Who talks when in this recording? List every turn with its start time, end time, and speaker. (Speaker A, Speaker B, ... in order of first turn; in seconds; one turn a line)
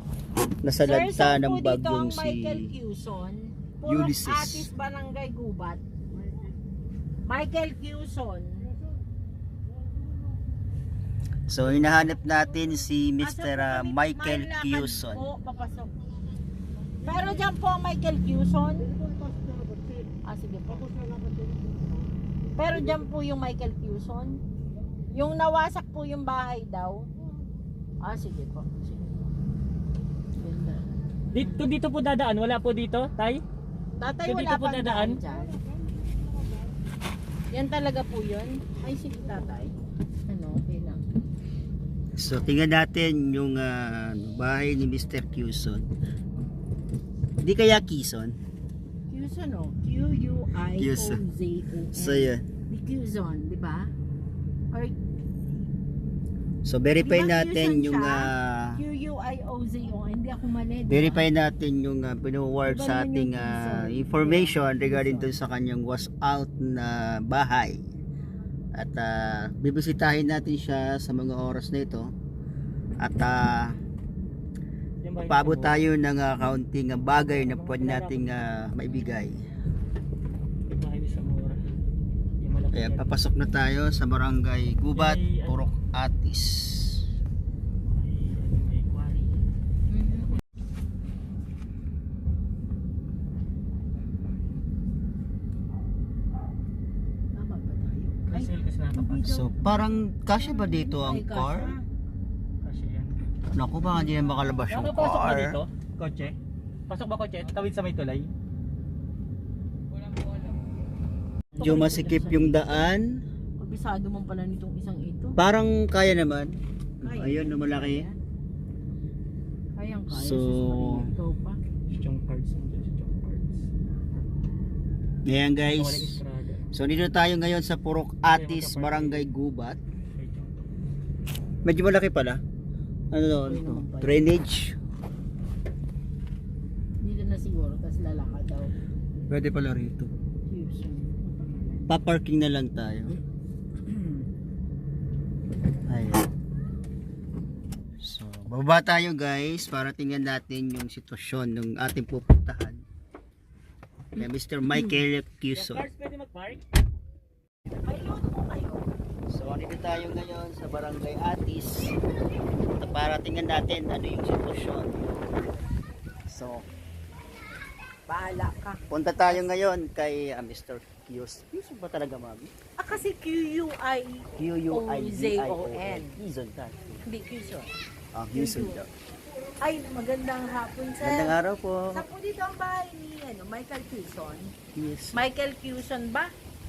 Speaker A: 0.6-2.7
Speaker B: 0.8-5.8
Speaker A: 3.9-4.7
Speaker B: 7.2-8.7
Speaker A: 11.5-15.2
Speaker B: 13.2-15.9
Speaker B: 17.0-18.9
Speaker B: 20.2-20.9
Speaker B: 22.6-24.4
Speaker B: 25.1-27.1
Speaker B: 28.0-29.2
Speaker B: 30.4-30.9
Speaker C: 31.3-33.4
Speaker B: 34.0-35.5
Speaker C: 34.2-35.2
Speaker B: 37.5-39.7
Speaker B: 40.3-41.0
Speaker A: 42.1-45.9
Speaker A: 47.4-48.4
Speaker B: 49.1-53.9
Speaker A: 50.8-51.2
Speaker A: 51.9-52.4
Speaker B: 54.7-55.0
Speaker A: 56.6-58.8
Speaker B: 57.0-61.2
Speaker A: 60.9-67.8
Speaker B: 62.7-65.3
Speaker A: 68.8-72.1
Speaker A: 73.0-73.8
Speaker C: 75.0-75.9
Speaker A: 75.2-79.4
Speaker C: 77.2-78.4
Speaker C: 80.7-81.6
Speaker C: 82.4-83.1
Speaker A: 82.7-87.0
Speaker C: 84.9-85.7
Speaker C: 87.9-89.4
Speaker B: 89.9-90.3
Speaker B: 97.3-101.8
Speaker C: 98.3-99.3
Speaker A: 99.2-101.7
Speaker C: 102.6-103.2
Speaker A: 103.5-105.6
Speaker C: 104.7-106.3
Speaker C: 106.9-108.3
Speaker B: 111.5-112.9
Speaker A: 111.6-113.2
Speaker B: 113.6-115.4
Speaker A: 115.4-118.1
Speaker B: 117.0-118.2
Speaker B: 119.8-121.6
Speaker A: 120.1-121.1
Speaker C: 121.9-123.6
Speaker A: 125.3-126.2
Speaker C: 125.7-126.6
Speaker A: 126.7-129.8
Speaker C: 128.3-129.2
Speaker C: 130.1-130.6
Speaker A: 131.6-132.4
Speaker A: 133.1-134.8
Speaker B: 133.4-134.2
Speaker B: 137.0-138.7
Speaker A: 139.3-140.1
Speaker B: 140.5-141.9
Speaker A: 141.9-143.1
Speaker B: 143.9-144.2
Speaker A: 145.9-146.3
Speaker A: 148.0-152.8
Speaker A: 154.2-155.8
Speaker B: 154.2-155.0
Speaker C: 155.5-156.6
Speaker B: 157.8-158.9
Speaker A: 159.3-161.9
Speaker A: 162.8-165.1
Speaker A: 166.3-166.7
Speaker B: 168.1-169.5
Speaker A: 168.9-172.5
Speaker B: 172.8-176.2
Speaker A: 174.3-177.0
Speaker B: 177.0-177.7
Speaker A: 178.1-178.9
Speaker B: 178.3-178.8
Speaker B: 179.6-181.4
Speaker A: 181.0-182.1
Speaker B: 181.9-184.5
Speaker A: 184.7-185.2
Speaker B: 185.1-186.3